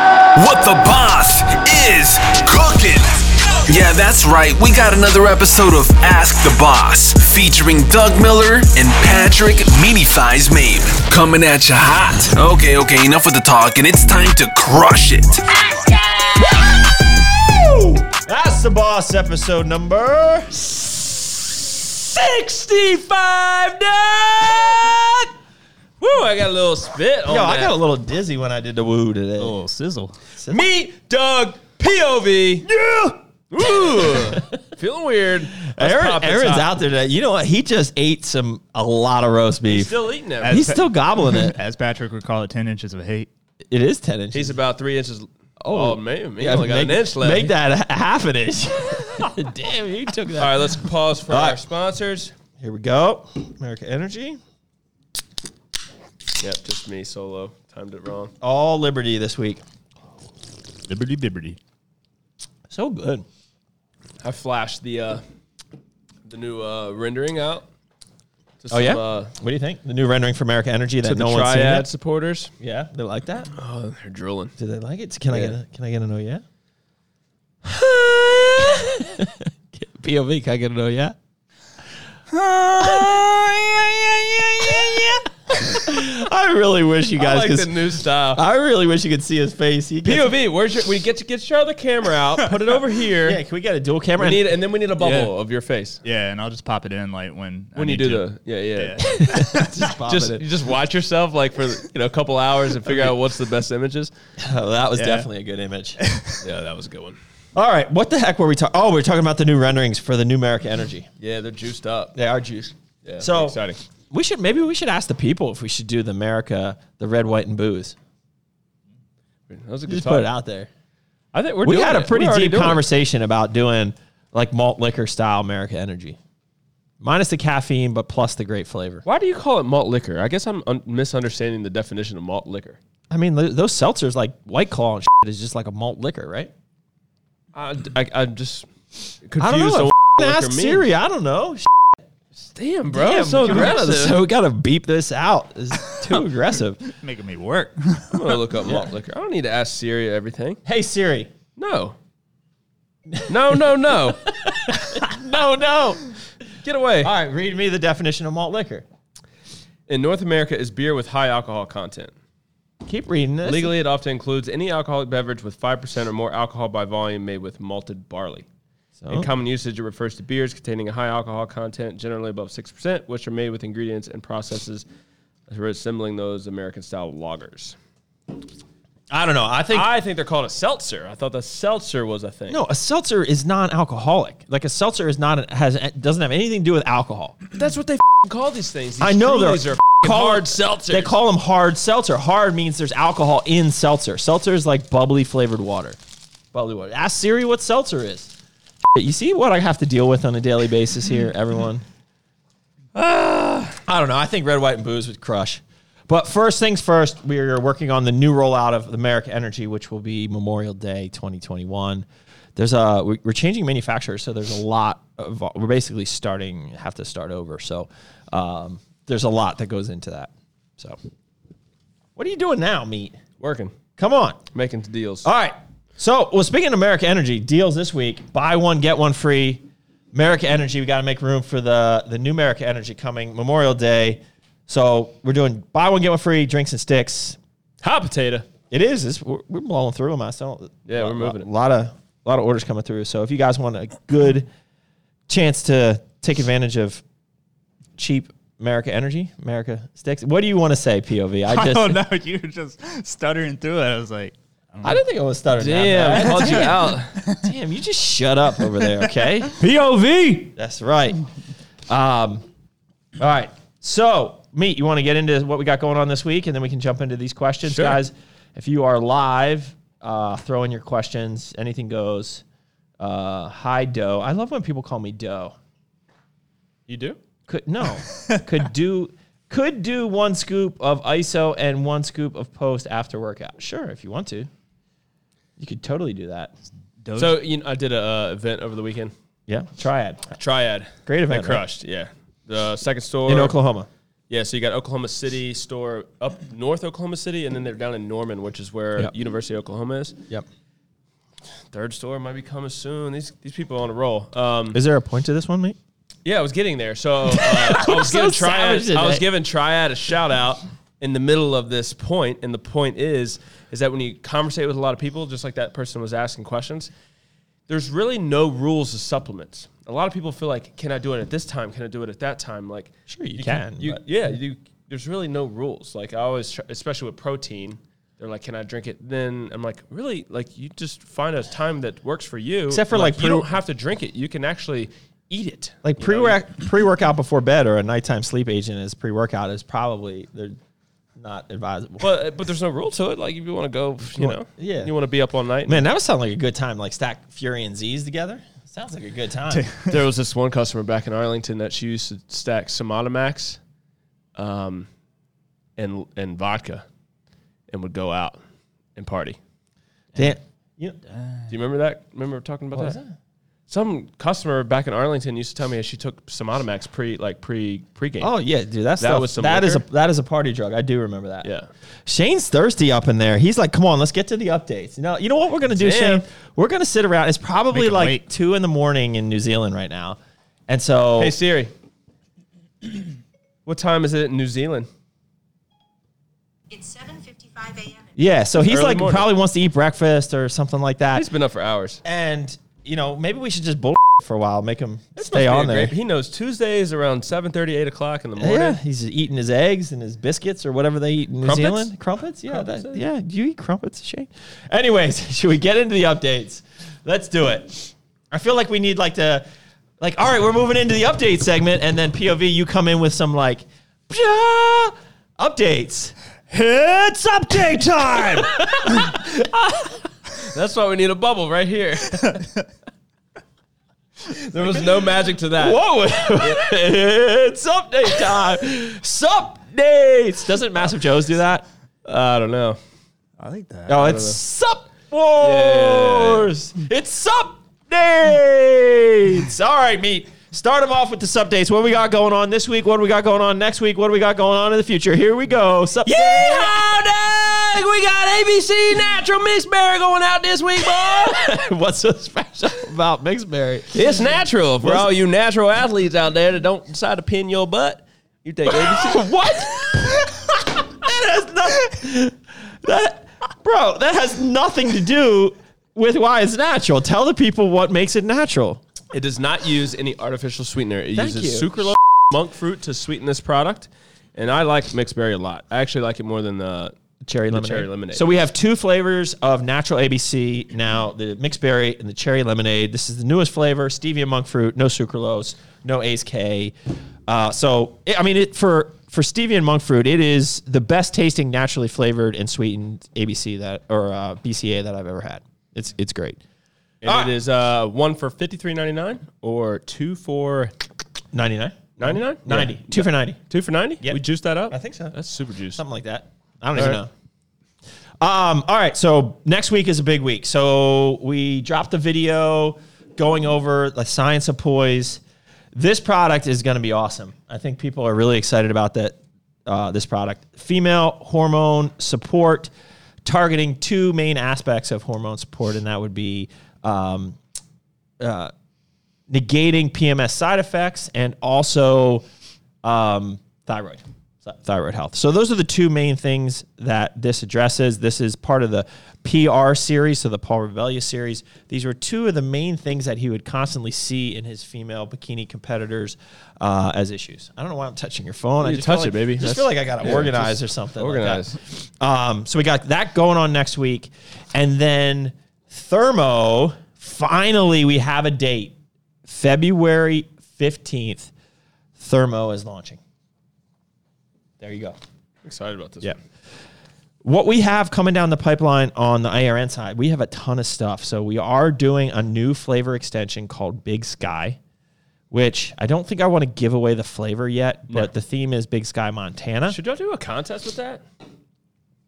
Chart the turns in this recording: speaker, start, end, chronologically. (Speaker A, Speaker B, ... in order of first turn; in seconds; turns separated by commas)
Speaker A: 0.3-15.6, Speaker B: 17.3-21.8, Speaker C: 22.1-25.2, Speaker C: 26.0-27.8, Speaker B: 27.3-29.6, Speaker D: 29.4-30.1, Speaker B: 30.4-30.6, Speaker C: 30.5-32.7, Speaker B: 32.7-33.1, Speaker C: 33.5-36.7, Speaker B: 35.6-39.9, Speaker C: 39.6-40.7, Speaker D: 40.4-43.3, Speaker B: 40.5-41.6, Speaker B: 43.7-44.6, Speaker C: 44.3-47.5, Speaker B: 45.6-50.8, Speaker C: 50.4-52.3, Speaker B: 51.3-51.6, Speaker B: 52.6-54.4, Speaker C: 56.4-58.3, Speaker B: 58.4-59.6, Speaker D: 60.9-61.6, Speaker B: 62.7-63.2, Speaker C: 64.2-65.2, Speaker C: 66.2-67.7, Speaker C: 68.6-69.3, Speaker B: 68.7-71.9, Speaker C: 71.0-72.5, Speaker B: 72.6-73.5, Speaker C: 73.5-74.5, Speaker B: 74.6-76.4, Speaker B: 77.6-81.2, Speaker B: 82.3-87.7, Speaker C: 87.2-88.4, Speaker B: 88.3-90.3, Speaker C: 90.0-93.4, Speaker B: 93.2-94.5, Speaker C: 94.2-96.0, Speaker D: 95.0-95.3, Speaker D: 96.0-99.8, Speaker C: 97.7-99.2, Speaker B: 99.0-100.4, Speaker C: 100.1-104.1, Speaker B: 104.4-106.0, Speaker D: 105.0-105.2, Speaker D: 106.0-106.4, Speaker C: 106.4-107.2, Speaker B: 107.5-111.1, Speaker C: 111.2-112.1, Speaker B: 112.1-113.6, Speaker C: 113.0-113.8, Speaker B: 114.1-118.0, Speaker C: 119.5-120.3, Speaker B: 119.9-120.7, Speaker C: 121.3-122.8, Speaker B: 121.6-126.2, Speaker B: 127.0-129.0, Speaker C: 129.0-132.8, Speaker B: 133.1-136.5, Speaker C: 137.5-138.7, Speaker C: 139.2-140.9, Speaker B: 139.4-142.0, Speaker C: 142.4-144.2, Speaker B: 142.9-146.8, Speaker D: 146.8-148.4, Speaker C: 148.1-150.6, Speaker B: 150.6-151.3, Speaker C: 151.6-152.0, Speaker C: 153.3-154.3, Speaker B: 154.2-156.0, Speaker C: 156.6-157.1, Speaker B: 157.0-158.8, Speaker C: 159.9-162.1, Speaker B: 162.8-163.8, Speaker C: 163.4-168.5, Speaker B: 169.0-169.3, Speaker C: 169.1-174.8, Speaker C: 175.5-177.8, Speaker B: 179.1-179.9, Speaker C: 179.7-182.6, Speaker B: 182.5-187.4, Speaker C: 187.5-191.2, Speaker B: 189.0-196.0, Speaker B: 196.5-198.3, Speaker B: 198.9-201.8, Speaker C: 202.9-203.8, Speaker B: 203.8-221.0, Speaker B: 222.2-223.2, Speaker C: 223.4-223.7, Speaker B: 224.0-224.4, Speaker C: 224.5-225.3, Speaker B: 225.2-237.4, Speaker C: 237.8-238.4, Speaker B: 238.7-244.5, Speaker C: 240.8-241.5, Speaker B: 245.3-247.0, Speaker B: 248.0-252.0, Speaker D: 251.5-255.0, Speaker B: 254.8-261.2, Speaker C: 255.6-257.2, Speaker B: 261.9-262.4, Speaker B: 263.2-272.4, Speaker C: 267.7-268.0, Speaker B: 273.0-275.5, Speaker C: 276.9-277.2, Speaker B: 277.5-284.5, Speaker B: 285.6-286.5, Speaker D: 287.0-287.4, Speaker C: 287.1-289.1, Speaker B: 289.5-290.4, Speaker C: 290.4-293.6, Speaker B: 291.1-291.6, Speaker B: 293.3-293.9, Speaker C: 294.3-300.2, Speaker C: 301.7-304.8, Speaker B: 304.7-305.8, Speaker C: 306.2-316.9, Speaker B: 307.3-309.2, Speaker C: 317.7-336.4, Speaker B: 323.1-324.0, Speaker B: 332.7-333.5, Speaker B: 335.8-340.6, Speaker B: 341.2-342.1, Speaker C: 342.0-345.8, Speaker B: 344.1-344.9, Speaker B: 345.7-349.7, Speaker D: 349.5-349.9, Speaker C: 349.8-353.6, Speaker C: 354.3-354.9, Speaker C: 355.8-356.8, Speaker C: 357.7-358.4, Speaker C: 358.9-359.4, Speaker B: 360.1-361.0, Speaker C: 361.5-363.0, Speaker B: 362.7-363.1, Speaker C: 363.7-368.3, Speaker B: 368.2-371.5, Speaker C: 369.0-369.8, Speaker C: 371.4-371.7, Speaker B: 372.1-381.3, Speaker C: 375.7-376.2, Speaker D: 377.7-378.2, Speaker C: 381.2-381.7, Speaker C: 383.6-384.9, Speaker B: 388.1-391.3, Speaker C: 388.6-389.3, Speaker C: 391.1-392.0, Speaker B: 392.0-395.9, Speaker C: 395.2-398.8, Speaker B: 398.4-409.4, Speaker C: 401.4-401.9, Speaker C: 402.5-403.0, Speaker B: 410.0-420.1, Speaker C: 420.4-422.4, Speaker C: 424.3-426.6, Speaker B: 425.6-431.6, Speaker C: 432.0-432.8, Speaker D: 433.4-433.9, Speaker B: 433.9-446.9, Speaker C: 433.9-434.4, Speaker C: 435.4-436.5, Speaker C: 446.1-451.4, Speaker B: 451.0-454.0, Speaker C: 453.9-459.2, Speaker B: 454.8-455.1, Speaker B: 458.7-468.8, Speaker C: 469.1-476.9, Speaker B: 471.1-472.0, Speaker B: 477.2-486.7, Speaker C: 477.5-478.2, Speaker B: 487.3-496.4, Speaker C: 497.0-500.7, Speaker B: 497.0-497.3, Speaker B: 501.3-503.4, Speaker C: 502.0-505.8, Speaker B: 504.0-505.2, Speaker B: 505.7-507.1, Speaker C: 506.7-507.0, Speaker B: 508.2-515.2, Speaker B: 515.7-522.7, Speaker B: 523.2-527.4, Speaker B: 528.2-528.5, Speaker B: 529.3-532.2, Speaker B: 532.8-561.3, Speaker C: 548.6-551.6, Speaker B: 562.0-563.0, Speaker B: 564.6-565.0, Speaker C: 565.4-566.1, Speaker B: 567.2-574.6, Speaker B: 575.3-579.8, Speaker C: 579.7-581.0